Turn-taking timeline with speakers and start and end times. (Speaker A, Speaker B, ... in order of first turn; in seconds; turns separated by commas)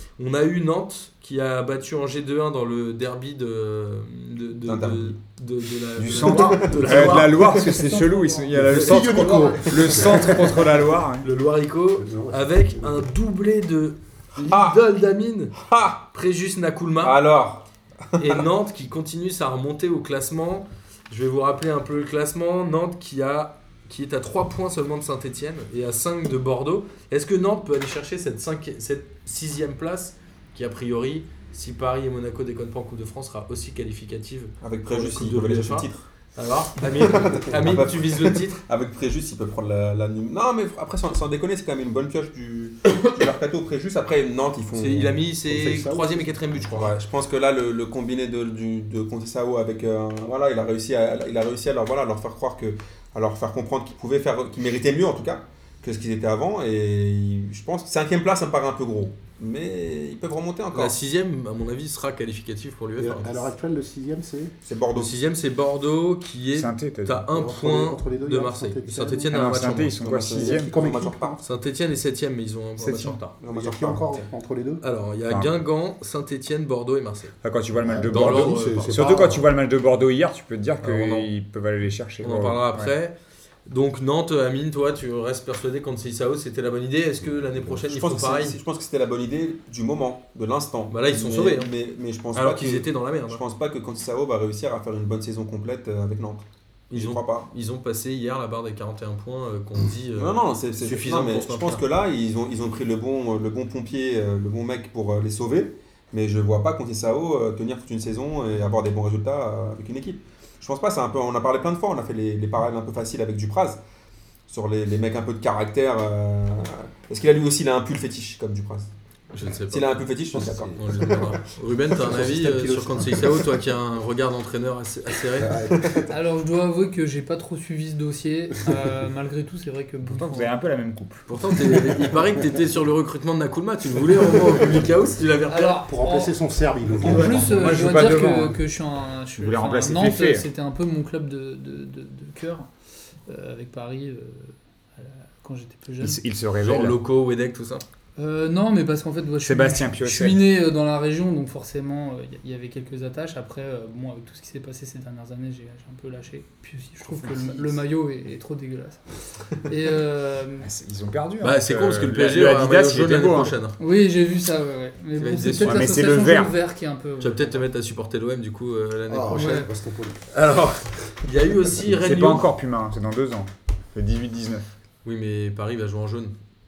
Speaker A: 0.2-7.5, Speaker B: 4.7-5.2, Speaker C: 6.0-11.3, Speaker B: 6.2-6.8, Speaker D: 6.9-9.8, Speaker A: 8.6-9.0, Speaker E: 8.6-10.8, Speaker A: 11.2-15.6, Speaker E: 12.0-13.1, Speaker B: 14.5-14.8, Speaker B: 15.6-16.1, Speaker A: 16.1-17.2, Speaker B: 17.0-18.4, Speaker A: 18.2-38.6, Speaker B: 34.6-36.0, Speaker B: 36.8-45.2, Speaker A: 44.8-47.0, Speaker E: 45.5-46.7, Speaker B: 46.7-61.0, Speaker A: 60.7-63.5, Speaker E: 63.0-64.5, Speaker B: 64.6-65.2, Speaker A: 65.0-70.0, Speaker C: 66.5-67.2, Speaker E: 67.3-69.6, Speaker C: 69.3-70.7, Speaker B: 70.0-71.4, Speaker E: 70.3-71.4, Speaker A: 71.4-73.4, Speaker C: 72.8-73.2, Speaker B: 73.4-74.3, Speaker E: 73.5-74.8, Speaker A: 74.8-77.3, Speaker C: 77.4-82.9, Speaker E: 77.8-79.4, Speaker A: 78.1-79.0, Speaker A: 80.8-81.3, Speaker A: 82.2-83.1, Speaker A: 83.7-88.6, Speaker B: 87.9-97.5, Speaker A: 90.9-91.7, Speaker A: 92.3-93.4, Speaker A: 96.9-101.8, Speaker B: 100.2-113.8, Speaker B: 114.5-118.9, Speaker A: 119.3-120.0, Speaker B: 119.7-121.4, Speaker E: 120.3-121.4, Speaker A: 120.7-125.6, Speaker E: 121.9-123.6, Speaker E: 125.4-126.0, Speaker B: 125.7-126.0, Speaker D: 126.1-130.6, Speaker C: 130.1-131.3, Speaker A: 131.3-135.8, Speaker E: 131.7-132.4, Speaker E: 134.5-134.8, Speaker D: 135.5-136.4, Speaker E: 135.9-137.8, Speaker D: 137.0-142.7, Speaker A: 137.0-137.5, Speaker C: 137.3-138.6, Speaker C: 139.4-140.4, Speaker D: 143.3-146.2, Speaker C: 146.0-147.0, Speaker A: 146.6-147.8, Speaker D: 148.2-159.0, Speaker C: 149.4-150.4, Speaker D: 159.6-160.7, Speaker C: 160.6-163.5, Speaker A: 161.4-163.8, Speaker D: 163.8-167.6, Speaker A: 165.2-165.9, Speaker C: 165.6-166.6, Speaker A: 167.2-169.7, Speaker E: 169.1-170.2, Speaker D: 169.3-169.7, Speaker A: 170.3-172.5, Speaker C: 172.0-174.6, Speaker A: 175.0-176.3